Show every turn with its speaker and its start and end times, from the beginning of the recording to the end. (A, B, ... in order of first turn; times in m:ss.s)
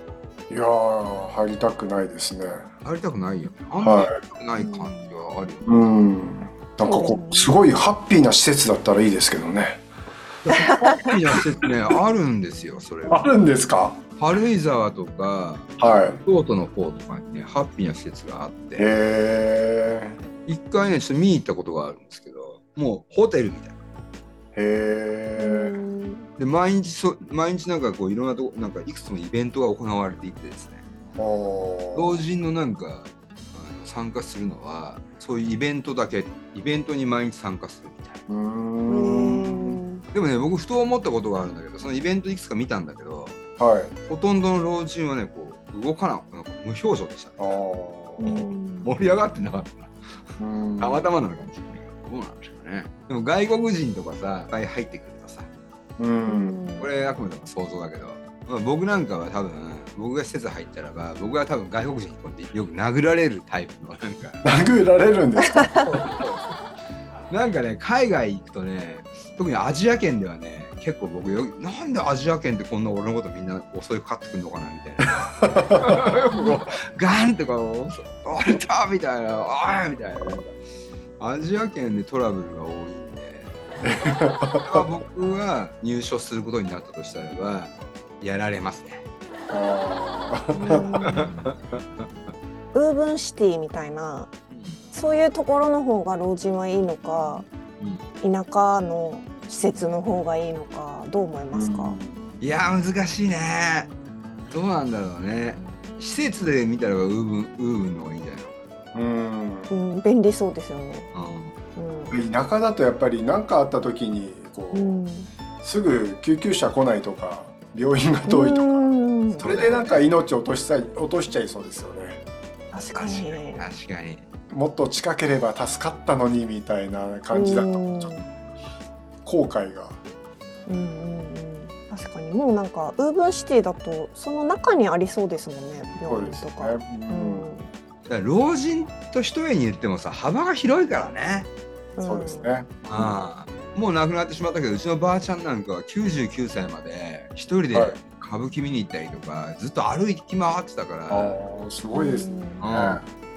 0:00.5-0:02.7 A
0:02.8-0:05.7 B
0:03.8-0:04.1 A
0:04.6-0:05.1 C
0:05.6-0:09.8 A
0:06.8-0:07.5 C
0:10.4-0:13.3 B
0:10.6-0:11.0 C
0:13.1-0:14.0 A
0:14.2-0:18.9 B
0:15.8-0:16.2 A
0:18.8-0:20.2 A
0:20.4-0:23.8 B
0:24.5-0:25.8 A
0:25.4-0:26.3 C
0:26.4-0:30.8 B
0:31.2-0:32.2 A
0:31.9-0:38.2 B
0:38.3-0:39.8 A
0:38.9-0:40.0 C
0:40.1-0:43.4 B
0:43.6-0:43.9 A
0:44.1-0:47.5 B
0:47.4-0:48.5 A
0:48.2-0:48.9 C
0:48.8-0:50.2 B
0:50.4-0:51.1 A
0:50.8-0:55.5 B
0:56.0-0:56.6 A
0:56.3-0:56.9 C
0:56.8-1:04.4 B
1:04.4-1:05.6 A
1:05.7-1:06.6 B
1:07.3-1:20.5 B
1:15.2-1:16.0 A
1:21.2-1:23.5 B
1:23.8-1:24.8 A
1:24.6-1:29.0 B
1:29.5-1:30.9 A
1:30.5-1:31.4 C
1:31.0-1:32.1 B
1:32.7-1:34.3 C
1:34.5-1:34.8 B
1:34.9-1:37.5 C
1:37.8-1:38.0 B
1:38.2-1:42.0 C
1:41.5-1:42.2 A
1:42.4-1:43.9 B
1:44.5-1:48.5 B
1:48.9-1:49.7 A
1:49.7-1:51.1 C
1:51.1-1:51.5 B
1:51.8-1:52.2 C
1:52.1-1:55.0 A
1:54.7-1:55.3 C
1:55.6-1:58.8 A
1:58.3-1:59.5 C
1:59.4-2:02.2 A
1:59.4-2:00.0 B
2:02.7-2:03.6 C
2:03.0-2:04.2 B
2:04.5-2:08.1 A
2:07.3-2:08.3 C
2:09.2-2:10.0 A
2:10.7-2:17.7 C
2:16.0-2:17.5 A
2:18.1-2:21.5 B
2:22.0-2:22.5 C
2:22.0-2:22.7 A
2:22.8-2:31.4 B
2:27.7-2:28.0 A
2:31.1-2:33.0 A
2:31.9-2:32.6 C
2:32.6-2:33.0 B